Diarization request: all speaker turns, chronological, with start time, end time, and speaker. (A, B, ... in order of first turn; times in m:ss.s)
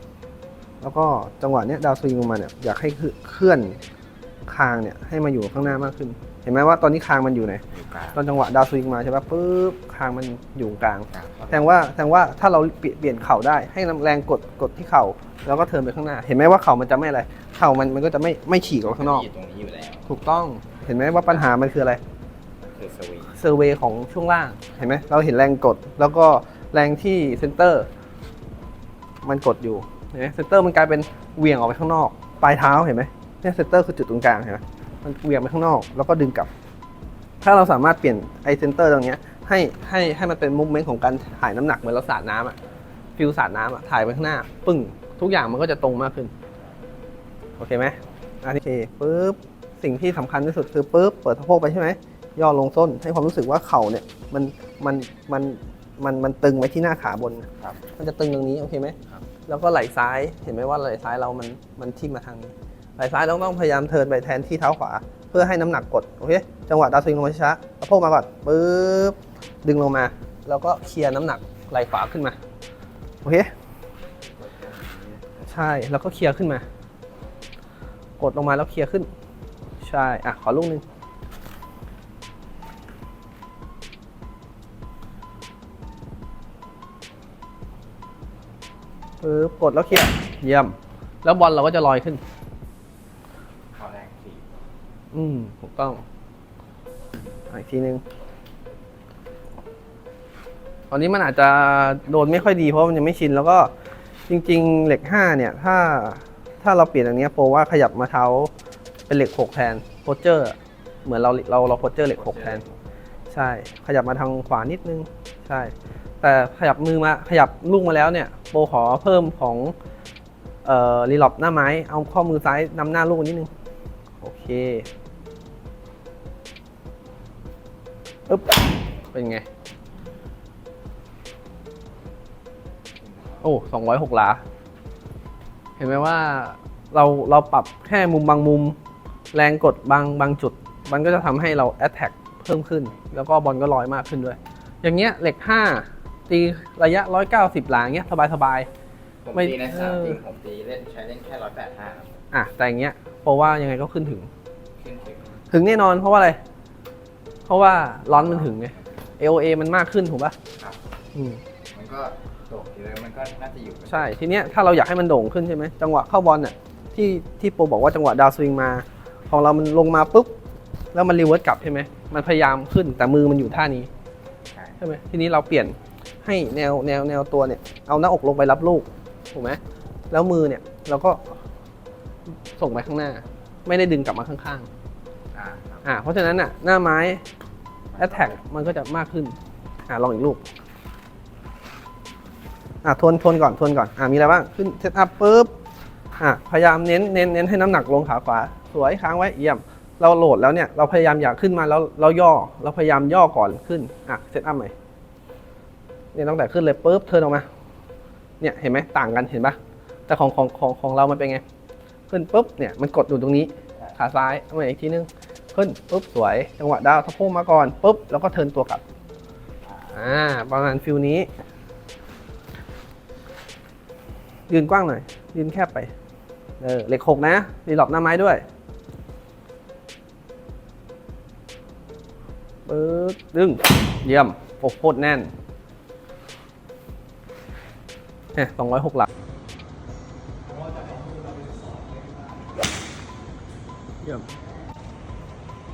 0:00.8-0:03.8 A
0:04.5-0:19.3 A
0:07.7-0:08.2 B
0:11.1-0:11.6 B
0:18.8-0:20.1 B
0:20.1-0:22.0 A
0:22.6-0:23.4 B
0:23.4-0:27.9 A
0:29.2-0:36.5 A
0:37.4-0:42.6 A
0:43.2-0:46.3 A
0:47.6-1:12.4 A
1:13.2-1:13.5 A
1:14.3-1:15.4 B
1:15.5-1:16.6 A
1:18.2-1:19.1 A
1:19.8-1:20.8 A
1:29.2-1:32.2 A
1:33.8-1:34.5 B
1:35.1-1:36.0 A
1:37.5-1:38.0 A
1:40.9-1:43.7 A
1:44.3-1:48.5 A
1:49.1-1:52.6 A
1:52.1-1:52.8 B
1:53.3-1:59.7 A
2:00.6-2:03.5 A
2:04.2-2:04.9 A
2:08.3-2:08.6 A
2:09.1-2:09.5 A
2:13.0-2:13.4 B
2:13.4-2:14.4 A
2:15.8-2:18.8 A
2:19.3-2:28.7 A
2:29.2-2:32.2 B
2:29.3-2:30.2 A
2:32.3-2:34.3 A
2:34.8-2:35.4 B
2:35.5-2:36.4 A
2:37.5-2:40.4 A
2:38.1-2:38.8 B
2:41.2-2:41.4 A
2:41.7-2:44.2 B
2:43.9-2:50.3 A
2:50.9-2:53.9 A
2:54.5-2:54.8 B
2:54.8-3:01.4 A
3:02.6-3:04.7 A
3:05.3-3:05.9 B
3:05.8-3:07.2 A
3:07.9-3:08.4 B
3:08.0-3:09.4 A
3:09.9-3:10.4 A
3:12.8-3:15.5 A
3:16.2-3:24.7 A
3:26.1-3:27.5 A
3:28.4-3:29.6 A
3:30.1-3:31.4 A
3:32.1-3:38.8 A
3:39.9-3:41.3 A
3:44.5-3:45.9 A
3:46.6-3:48.4 A
3:52.7-3:55.3 A
3:58.4-3:59.1 A
4:04.0-4:04.3 A